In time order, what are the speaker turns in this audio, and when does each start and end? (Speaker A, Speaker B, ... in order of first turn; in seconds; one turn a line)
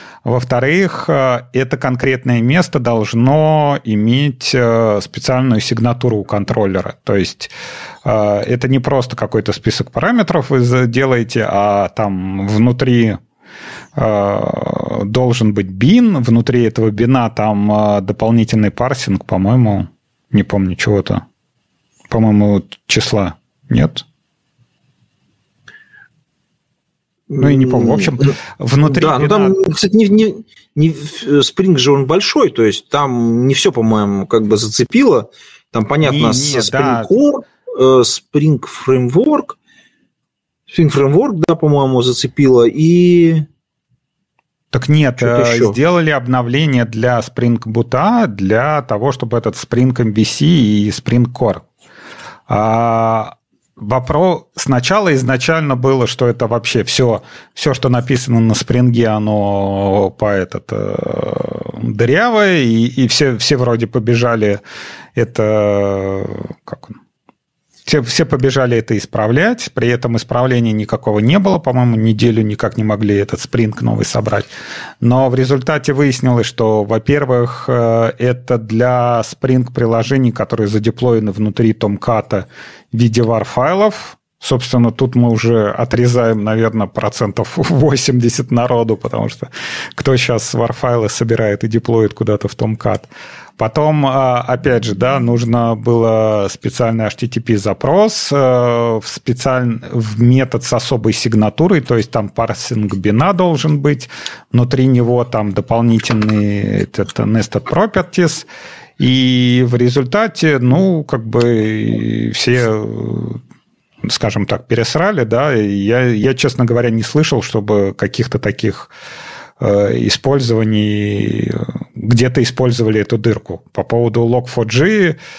Speaker A: 0.2-7.5
Speaker A: 8.1-13.2
Speaker A: 14.0-21.2
Speaker A: 22.1-24.1
Speaker B: 27.3-28.3
Speaker A: 27.4-29.6
Speaker B: 28.9-39.6
Speaker A: 36.0-37.1
Speaker B: 40.7-43.5
Speaker A: 44.7-51.6
Speaker B: 45.2-45.8
Speaker A: 52.5-64.6
Speaker A: 65.2-67.0
Speaker A: 67.9-74.5
Speaker A: 75.0-108.5
Speaker A: 109.0-113.4
Speaker A: 114.0-118.9
Speaker A: 119.6-125.2